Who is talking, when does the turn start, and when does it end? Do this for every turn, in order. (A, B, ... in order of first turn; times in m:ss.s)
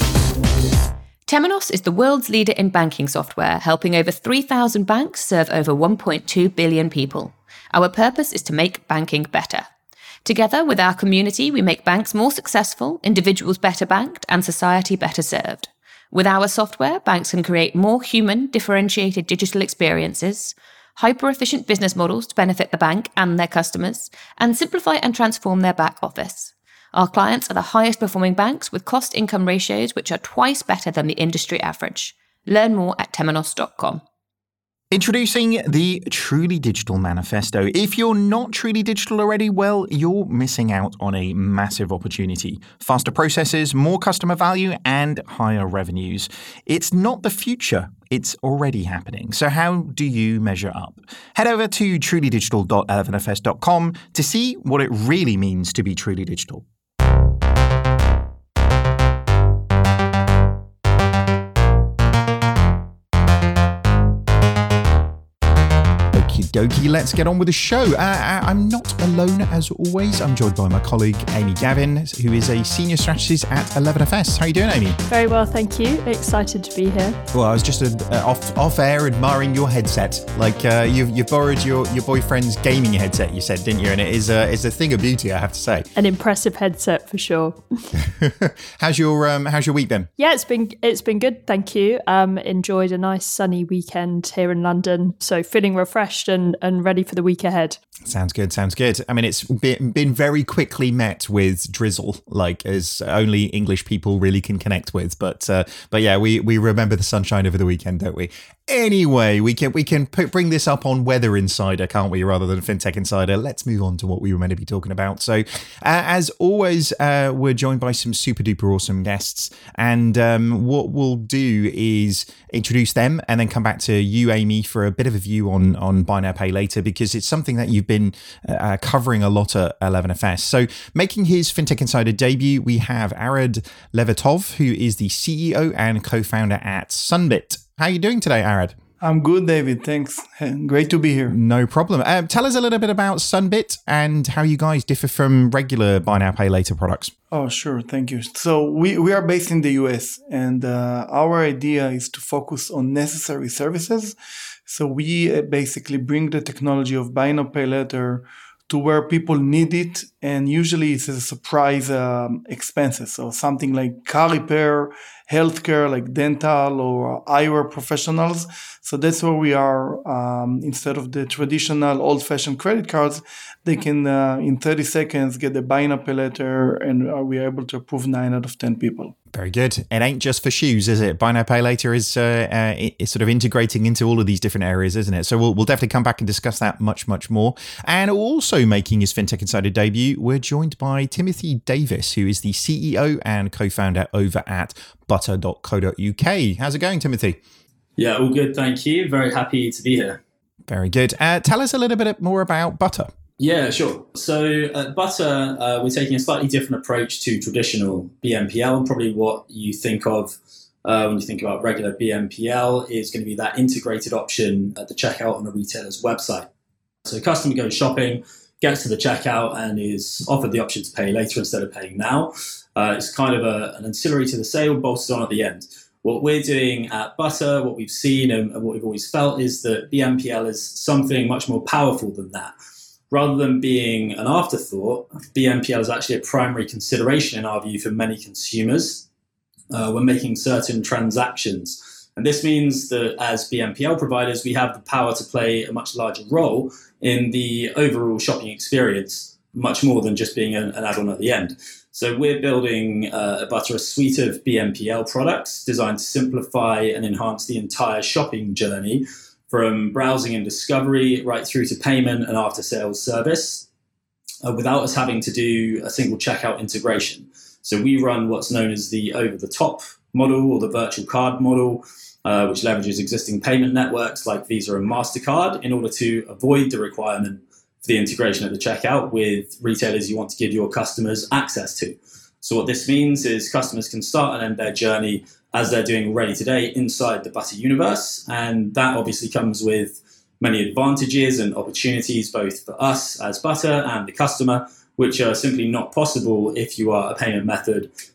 0:01.3-0:09.7 A
0:10.2-0:34.0 A
0:34.9-0:56.6 B
1:06.1-1:15.0 B
1:15.1-1:17.2 C
1:17.3-1:25.9 B
1:26.0-1:27.6 C
1:28.0-1:30.1 B
1:30.2-1:37.8 C
1:38.0-2:18.8 B
2:19.0-2:21.4 D
2:21.3-2:27.1 B
2:27.3-2:34.2 D
2:34.7-2:59.1 D
2:59.3-3:17.4 B
3:18.0-3:20.2 E
3:20.7-3:23.1 B
3:23.4-3:36.5 E
3:37.0-3:52.5 E
3:53.1-3:59.0 E
3:59.7-4:23.7 E
4:24.4-4:57.9 E